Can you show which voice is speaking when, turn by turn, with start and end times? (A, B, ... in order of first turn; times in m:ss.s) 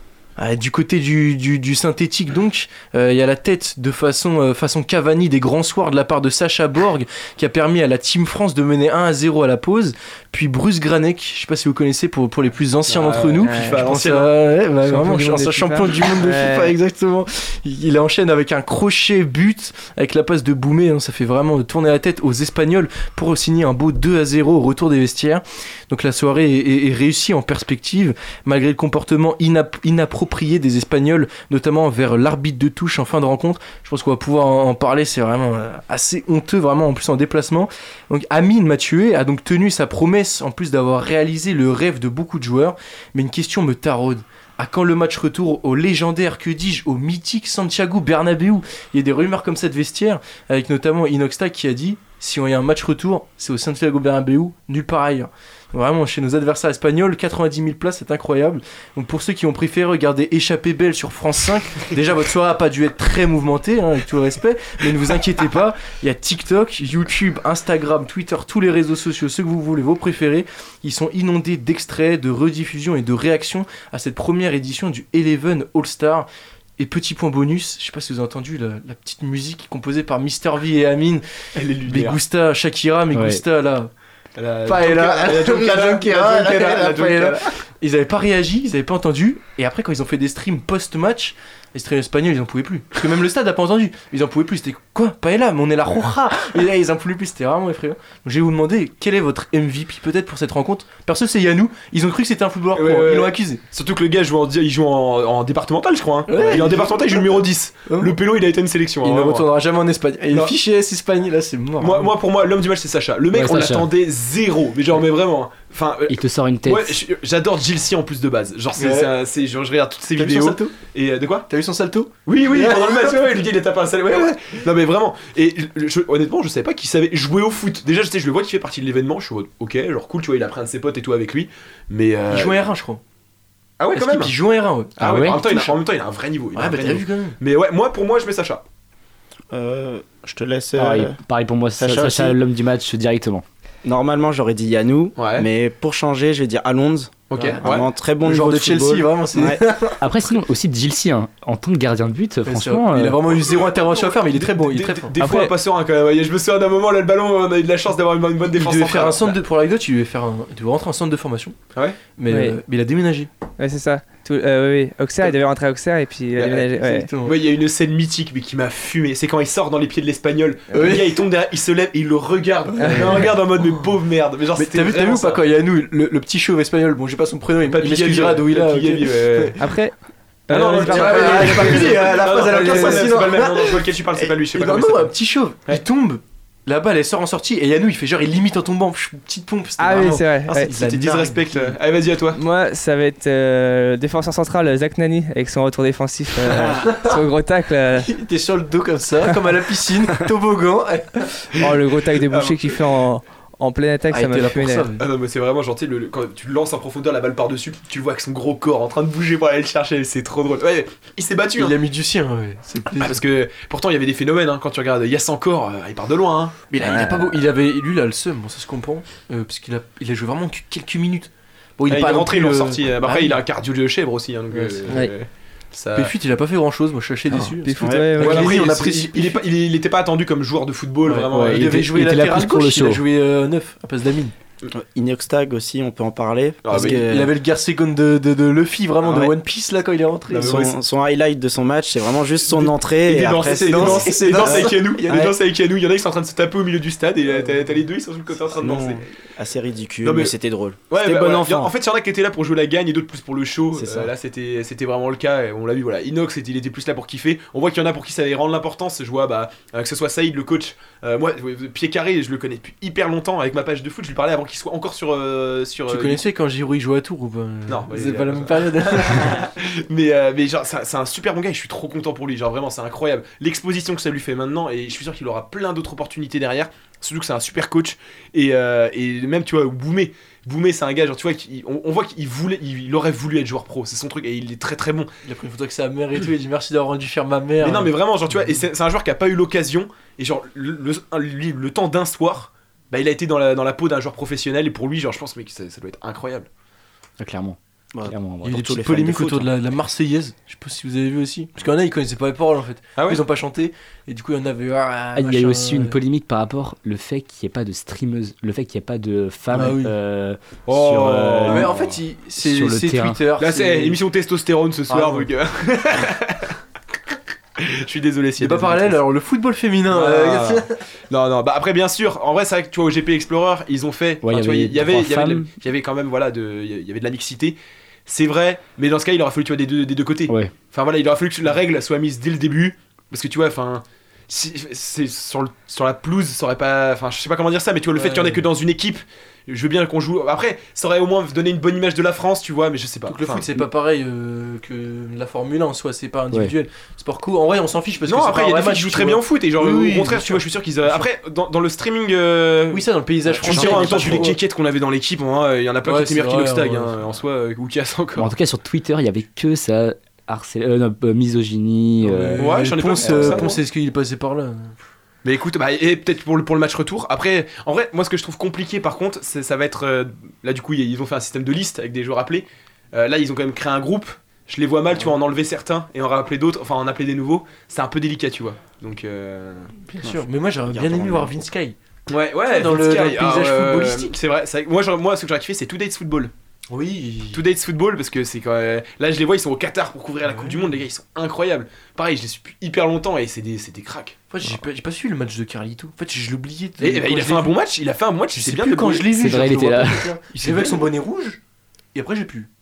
0:00.4-1:16.3 A
0:12.8-0:14.3 B
0:13.4-0:13.8 C
0:14.8-0:16.7 C
1:16.8-1:21.2 A
1:21.5-1:22.2 B
1:21.8-1:23.9 A
1:23.1-1:23.4 D
1:24.4-1:27.4 B
1:24.6-1:43.6 A
1:42.7-1:49.5 B
1:46.3-1:48.2 A
1:49.0-1:52.1 A
1:51.8-2:01.5 B
1:53.3-1:53.9 D
1:56.1-1:57.0 D
1:58.8-1:59.2 A
2:00.2-2:00.8 A
2:01.5-2:03.4 A
2:02.3-2:12.6 B
2:12.3-2:13.0 A
2:13.8-2:14.4 B
2:13.9-2:15.8 A
2:15.0-2:18.6 B
2:15.0-2:15.4 D
2:16.5-2:17.4 A
2:19.5-2:21.2 E
2:20.8-2:23.4 D
2:21.7-2:22.4 E
2:23.8-2:29.7 E
2:25.2-2:25.5 B
2:27.3-2:27.9 B
2:27.3-2:27.7 A
2:28.2-2:30.0 A
2:30.0-2:33.2 D
2:32.4-2:35.1 A
2:33.5-2:39.4 B
2:35.2-2:35.5 C
2:38.4-2:41.6 A
2:42.2-2:43.3 A
2:42.3-2:42.6 C
2:43.6-2:47.1 C
2:46.4-2:46.7 B
2:46.8-2:47.4 A
2:47.2-2:55.4 B
2:50.7-2:51.2 A
2:52.8-2:53.2 C
2:52.8-2:53.8 A
2:54.5-2:59.6 A
2:57.7-2:59.6 B
2:59.6-2:59.9 C
3:00.5-3:03.1 C
3:00.5-3:05.1 B
3:00.6-3:11.8 A
3:09.8-3:10.7 C
3:10.5-3:12.4 B
3:12.4-3:18.1 C
3:16.6-3:17.2 A
3:18.0-3:21.4 A
3:21.6-3:24.9 C
3:22.3-3:22.6 B
3:24.1-3:25.0 A
3:25.0-3:31.8 B
3:31.6-3:33.2 A
3:33.0-3:37.0 B
3:36.7-3:43.4 A
3:41.9-3:46.1 B
3:44.5-3:45.1 A
3:45.9-3:49.4 A
3:47.3-3:48.6 C
3:47.8-3:48.1 E
3:48.2-3:51.9 B
3:51.0-3:54.3 A
3:51.4-3:53.0 D
3:54.7-3:57.3 E
3:56.6-3:57.0 B
3:56.7-4:00.6 A
3:59.0-3:59.3 E
4:00.3-4:00.8 B
4:00.3-4:05.3 E
4:02.5-4:09.0 B
4:03.4-4:05.2 A
4:07.3-4:07.8 A
4:08.6-4:11.7 E
4:10.0-4:10.3 B
4:10.9-4:26.2 B
4:13.7-4:14.1 E
4:25.9-4:29.5 A
4:27.7-4:45.1 B
4:45.2-4:48.6 A
4:47.6-4:56.5 B
4:57.2-4:59.1 D
4:58.4-5:06.0 A
4:58.8-4:59.4 E
5:03.0-5:03.2 B
5:05.1-5:13.2 D
5:09.5-5:09.9 A
5:10.7-5:11.8 B
5:11.5-5:14.0 A
5:13.4-5:16.5 B
5:14.9-5:15.3 A
5:17.6-5:19.0 B
5:18.4-5:20.7 A
5:19.9-5:43.5 B
5:24.2-5:25.5 D
5:30.3-5:30.5 D
5:37.9-5:38.5 A
5:43.1-5:51.0 A
5:48.0-5:58.3 B
5:52.7-5:54.4 A
5:53.5-5:54.3 D
5:55.8-5:57.0 A
5:58.2-6:03.5 D
6:02.0-6:04.8 A
6:02.4-6:03.6 B
6:05.2-6:19.7 B
6:19.9-6:21.8 A
6:20.0-6:21.4 E
6:22.1-6:26.3 B
6:22.5-6:24.1 A
6:26.7-6:27.4 A
6:27.3-6:34.2 B
6:30.2-6:30.7 A
6:34.3-6:37.6 A
6:36.8-6:39.4 B
6:38.3-6:41.4 A
6:39.1-6:40.1 D
6:40.3-6:40.9 B
6:41.9-6:42.5 A